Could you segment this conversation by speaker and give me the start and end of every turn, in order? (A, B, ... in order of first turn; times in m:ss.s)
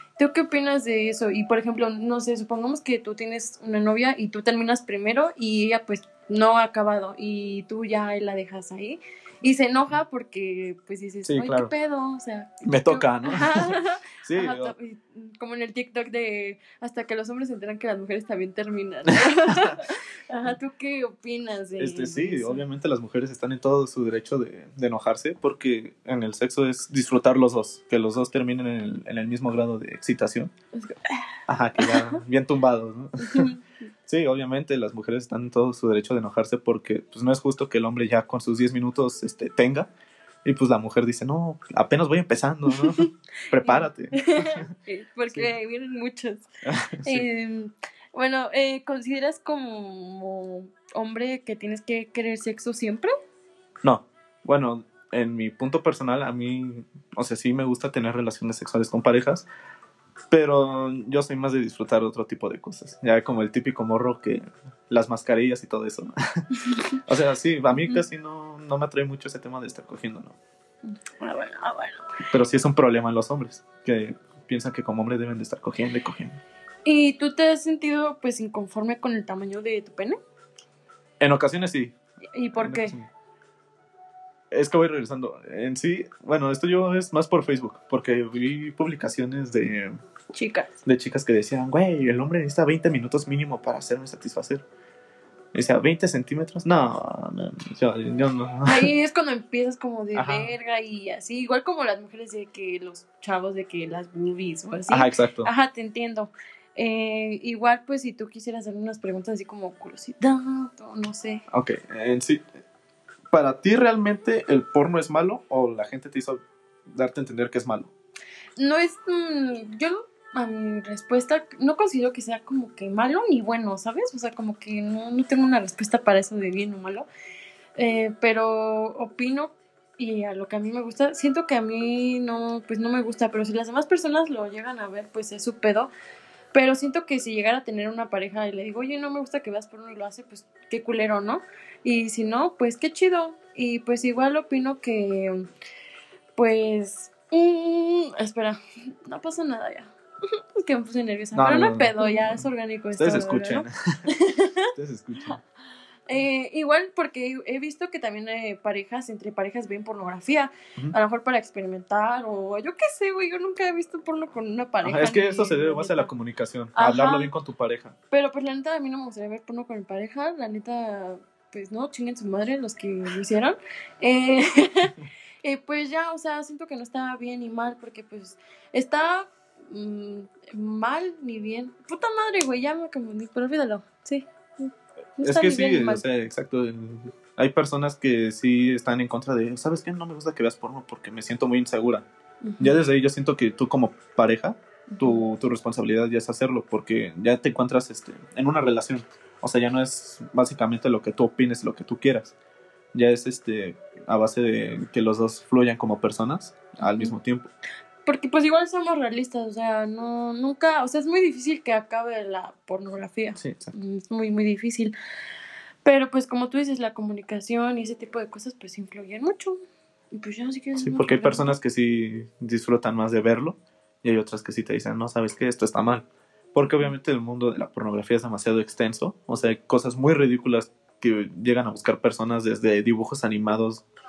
0:00.2-0:22.6 A
0:11.2-0:11.7 B
0:12.6-0:14.7 B
0:19.1-0:19.8 B
0:21.8-0:30.5 B
0:30.8-0:31.2 A
0:31.5-0:33.5 B
0:31.8-0:32.0 A
0:33.2-0:33.6 A
0:34.1-0:39.9 B
0:40.4-0:44.7 B
0:42.7-0:46.5 A
0:46.7-0:47.3 B
0:47.0-0:53.1 A
0:53.8-0:59.5 B
1:00.3-1:06.4 B
1:06.5-1:07.0 A
1:07.0-1:10.4 B
1:10.9-1:12.1 A
1:12.3-1:16.4 B
1:16.8-1:20.2 A
1:21.2-1:22.0 B
1:22.3-1:23.0 A
1:22.6-1:23.1 B
1:24.5-1:30.0 B
1:30.3-1:30.8 A
1:30.9-1:34.6 B
1:35.5-1:38.9 B
1:38.6-1:51.4 A
1:40.1-1:40.5 B
1:44.9-1:45.5 B
1:51.5-1:52.4 B
1:53.3-1:57.9 B
1:58.6-2:07.1 A
2:07.8-2:15.9 A
2:16.5-2:25.5 A
2:26.4-2:29.9 A
2:30.6-2:34.7 A
2:31.3-2:32.4 B
2:32.9-2:34.1 B
2:34.8-2:35.4 B
2:36.1-2:46.1 A
2:44.8-2:48.0 B
2:46.8-2:47.3 A
2:48.1-3:06.0 A
3:05.2-3:12.1 B
3:12.4-3:12.8 A
3:12.6-3:22.3 B
3:14.9-3:15.2 A
3:22.9-3:27.5 B
3:26.8-3:27.1 A
3:28.1-3:34.9 A
3:33.4-3:33.7 B
3:35.8-3:39.6 A
3:40.1-3:41.6 A
3:40.8-3:53.8 B